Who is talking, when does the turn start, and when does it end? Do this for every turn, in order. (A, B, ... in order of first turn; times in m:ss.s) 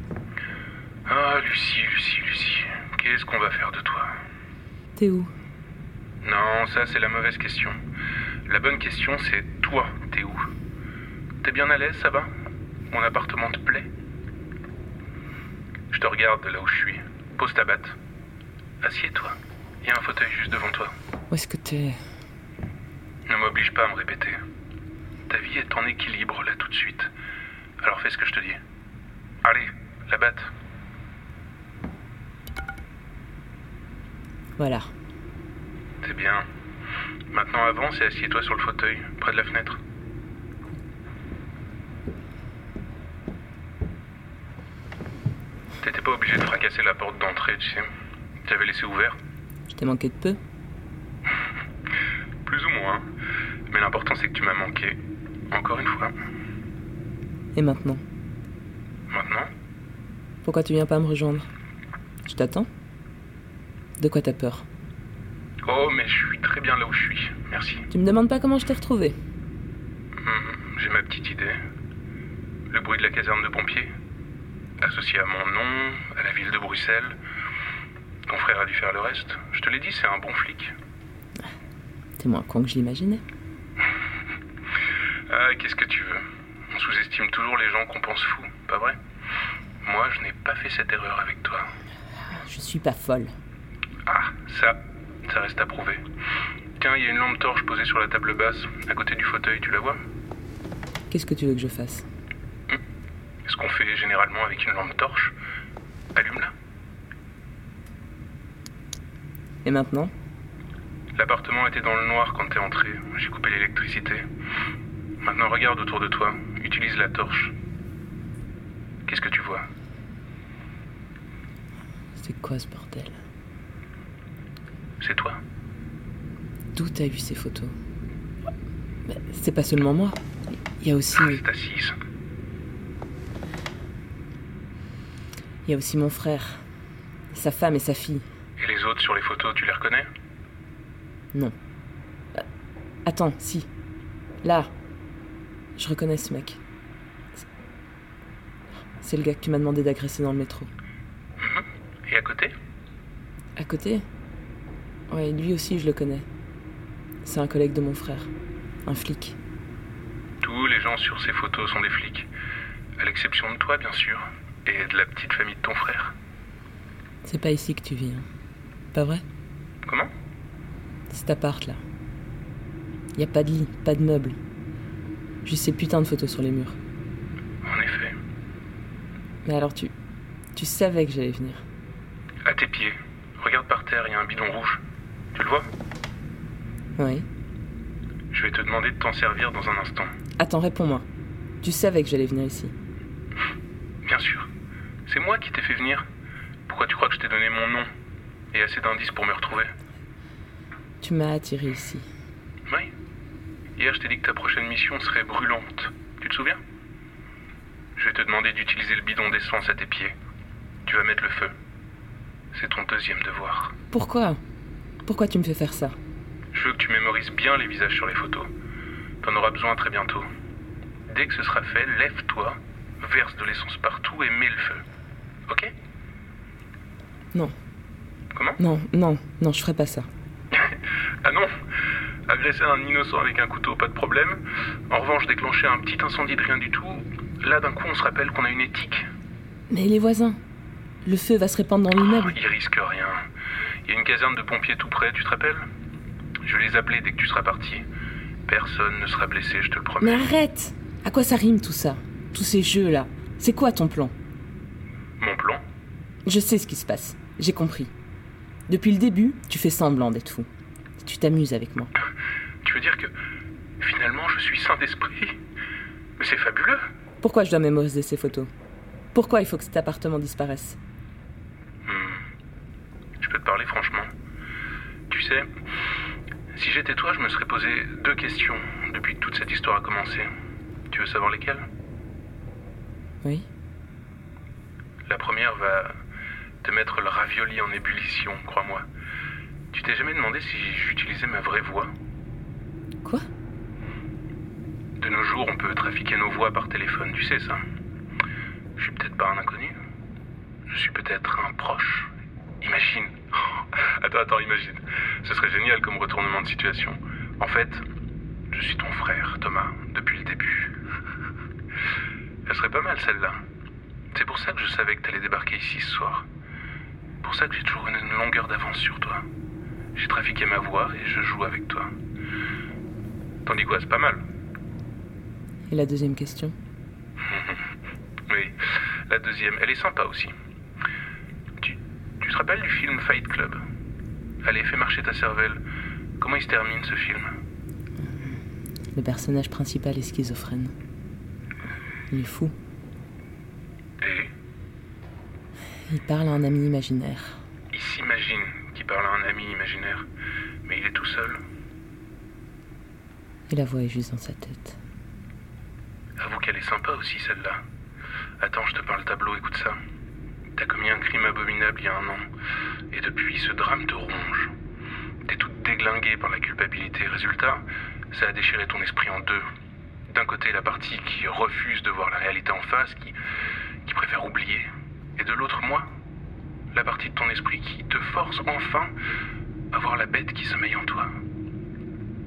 0:01.1-0:04.1 A
0:05.0-0:05.3 B
0:06.2-0:07.8 A
0:08.5-0:10.4 A
0:11.4-0:12.3 A
0:12.9-0:13.9 A
0:15.9-0:18.0 A
0:18.8-0:20.9 A
0:21.3-0:22.0 B
0:23.3-0:24.4 A
0:25.3-0:27.1 A
0:27.8-0:28.6 A
0:29.4-0:30.5 A
0:34.6-0:34.9 B
0:36.0-0:36.4 A
0:37.3-0:39.8 A
0:45.8-0:47.9 A
0:48.4-0:49.2 A
0:49.7-0:50.4 B
0:52.4-0:53.0 A
0:53.7-0:55.0 A
0:55.5-0:56.1 A
0:57.5-0:58.0 B
0:59.1-0:59.5 A
1:00.4-1:01.5 B
1:02.2-1:02.7 B
1:04.0-1:04.6 B
1:05.6-1:07.8 A
1:07.9-1:09.2 B
1:10.2-1:11.6 A
1:12.7-1:13.9 A
1:14.8-1:17.2 A
1:18.3-1:20.7 A
1:22.2-1:23.2 B
1:25.3-1:29.0 A
1:29.8-1:31.7 A
1:32.3-1:33.3 B
1:34.1-1:36.0 A
1:36.8-1:40.0 A
1:41.1-1:42.0 B
1:43.4-1:45.3 A
1:46.1-1:46.5 A
1:49.6-1:50.1 B
1:51.2-1:54.2 A
1:55.2-1:57.5 A
1:59.0-1:59.6 A
2:02.2-2:03.2 B
2:05.0-2:05.4 A
2:06.7-2:07.7 B
2:09.1-2:10.2 B
2:10.8-2:11.4 B
2:11.1-2:11.9 A
2:15.6-2:16.6 B
2:17.3-2:18.2 B
2:18.6-2:20.1 A
2:23.0-2:23.7 B
2:24.4-2:24.7 B
2:25.8-2:26.6 B
2:29.0-2:30.7 B
2:31.4-2:32.5 A
2:33.6-2:34.0 B
2:35.1-2:36.2 B
2:37.2-2:38.3 B
2:38.8-2:39.4 B
2:40.4-2:42.3 A
2:43.0-2:46.1 A
2:47.2-2:48.2 B
2:48.9-2:49.2 B
2:51.1-2:51.8 B
2:53.2-2:54.4 B
2:55.4-2:56.8 B
2:57.6-2:58.2 A
2:59.4-2:59.9 B
3:00.6-3:01.6 B
3:02.4-3:04.8 A
3:05.3-3:05.6 A
3:07.0-3:07.2 B
3:08.3-3:10.1 A
3:10.4-3:11.0 B
3:11.6-3:12.7 B
3:14.0-3:14.5 A
3:15.1-3:16.0 A
3:16.7-3:17.9 A
3:18.5-3:19.7 A
3:21.0-3:22.1 B
3:23.8-3:26.6 A
3:28.0-3:30.1 A
3:30.8-3:31.5 A
3:32.5-3:33.7 A
3:33.9-3:34.4 B
3:35.0-3:36.0 B
3:36.5-3:38.5 A
3:39.2-3:40.3 A
3:41.1-3:44.8 A
3:48.3-3:48.6 A
3:48.6-3:50.1 B
3:50.6-3:51.5 A
3:52.3-3:59.0 A
3:59.7-4:00.4 B
4:01.0-4:02.3 B
4:02.0-4:03.2 A
4:03.8-4:05.6 A
4:06.4-4:07.8 A
4:08.5-4:10.3 A
4:10.0-4:14.1 B
4:15.2-4:15.6 A
4:16.2-4:17.9 B
4:18.7-4:20.5 B
4:21.0-4:21.9 B
4:22.6-4:23.1 A
4:23.8-4:25.3 A
4:26.2-4:26.8 A
4:27.2-4:28.5 B
4:29.1-4:30.8 B
4:31.8-4:32.2 A
4:33.2-4:34.1 A
4:35.1-4:35.5 A
4:36.5-4:40.3 A
4:40.9-4:41.6 A
4:45.1-4:45.9 A
4:46.6-4:48.8 A
4:49.7-4:51.9 A
4:55.0-4:57.6 A
4:58.8-4:59.7 A
5:00.7-5:07.8 A
5:08.5-5:10.7 A
5:12.5-5:13.4 A
5:14.1-5:16.3 A
5:17.2-5:19.2 A
5:19.9-5:21.9 A
5:23.4-5:24.2 A
5:25.7-5:26.5 B
5:27.3-5:27.6 A
5:28.3-5:28.6 A
5:29.1-5:30.3 A
5:31.6-5:33.6 A
5:34.4-5:35.6 A
5:36.2-5:37.3 A
5:38.0-5:38.4 B
5:38.9-5:40.7 B
5:42.1-5:42.5 B
5:44.0-5:44.3 A
5:45.9-5:47.4 B
5:47.7-5:50.1 A
5:50.6-5:51.4 A
5:53.5-5:54.8 B
5:56.2-5:57.6 A
5:58.4-5:59.8 A
6:00.6-6:02.2 A
6:02.9-6:04.5 A
6:05.2-6:09.4 A
6:10.1-6:13.2 A
6:13.8-6:15.8 A
6:16.7-6:18.9 A
6:19.7-6:21.1 A